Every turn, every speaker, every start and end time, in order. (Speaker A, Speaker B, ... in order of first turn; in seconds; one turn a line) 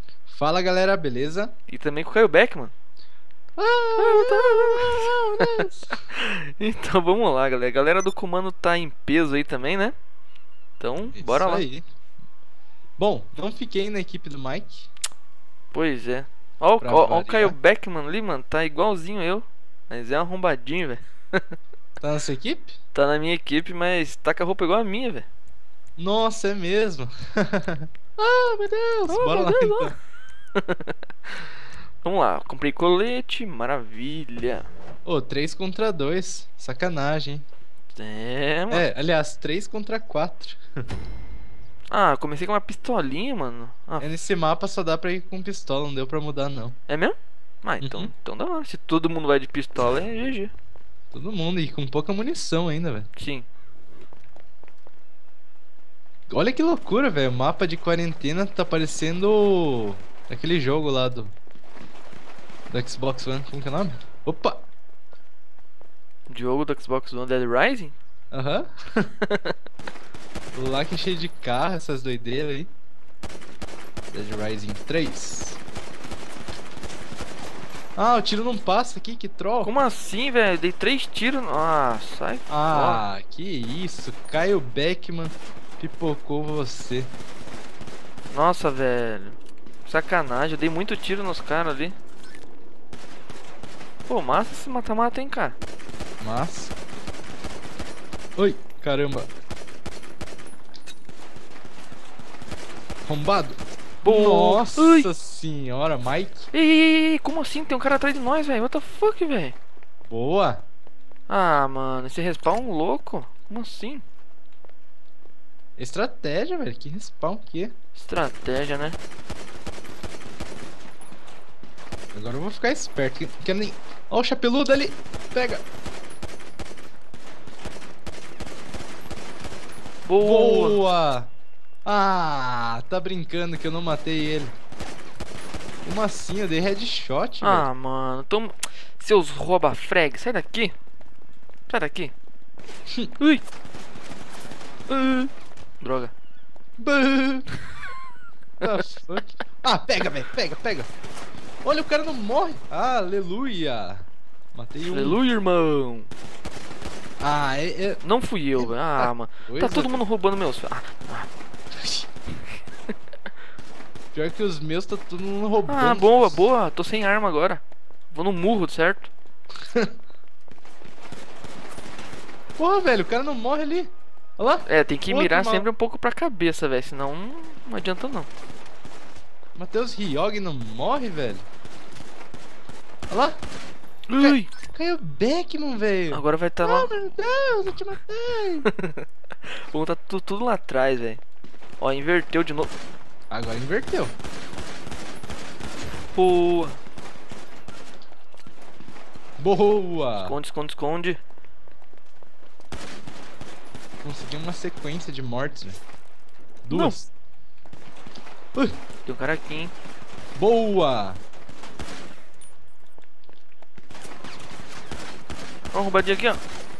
Speaker A: 0.3-1.5
Speaker B: 1.7-2.7
Speaker A: 3.6-6.0
Speaker B: 4.0-9.9
Speaker B: 10.8-11.7
Speaker A: 11.1-11.8
Speaker A: 13.0-14.9
Speaker B: 15.7-21.4
Speaker A: 16.8-17.6
Speaker A: 22.0-22.7
Speaker B: 22.9-25.3
Speaker A: 26.0-29.9
Speaker B: 29.1-29.9
Speaker B: 30.6-31.4
Speaker B: 32.0-34.7
Speaker A: 35.0-37.4
Speaker B: 37.9-38.9
Speaker A: 38.7-40.8
Speaker B: 41.9-44.1
Speaker A: 44.0-46.8
Speaker B: 46.9-50.5
Speaker A: 47.8-48.1
Speaker A: 51.1-53.1
Speaker B: 53.1-53.5
Speaker A: 56.3-61.3
Speaker A: 62.7-64.6
Speaker B: 66.3-67.9
Speaker A: 68.3-69.1
Speaker B: 69.2-69.5
Speaker A: 70.5-72.7
Speaker A: 74.1-75.6
Speaker A: 78.0-79.7
Speaker B: 79.6-83.0
Speaker A: 82.5-87.1
Speaker B: 88.3-92.0
Speaker B: 94.1-95.6
Speaker A: 96.2-96.7
Speaker A: 98.4-99.3
Speaker A: 103.0-106.5
Speaker B: 104.0-105.1
Speaker B: 106.5-109.5
Speaker A: 110.1-110.6
Speaker B: 111.3-114.0
Speaker A: 115.8-117.7
Speaker B: 117.9-119.0
Speaker A: 122.1-125.6
Speaker B: 130.1-130.8
Speaker A: 130.2-131.3
Speaker A: 131.8-134.5
Speaker A: 135.8-137.7
Speaker B: 137.4-140.7
Speaker B: 141.7-142.1
Speaker B: 144.9-146.1
Speaker A: 146.8-147.5
Speaker A: 148.6-150.9
Speaker A: 151.6-155.2
Speaker B: 154.8-156.1
Speaker A: 157.2-158.0
Speaker B: 158.0-161.3
Speaker A: 158.6-160.0
Speaker A: 164.1-166.4
Speaker B: 165.7-169.1
Speaker A: 172.6-175.7
Speaker B: 174.7-178.3
Speaker A: 179.6-181.4
Speaker A: 183.1-183.4
Speaker B: 184.1-184.5
Speaker A: 184.2-188.7
Speaker B: 186.1-186.9
Speaker B: 188.7-191.2
Speaker B: 191.8-192.7
Speaker A: 193.3-194.1
Speaker B: 196.1-196.8
Speaker A: 199.4-200.3
Speaker B: 200.2-201.2
Speaker A: 204.0-205.8
Speaker A: 206.6-207.1
Speaker B: 206.7-206.9
Speaker B: 209.1-209.7
Speaker A: 210.3-211.2
Speaker B: 215.7-216.4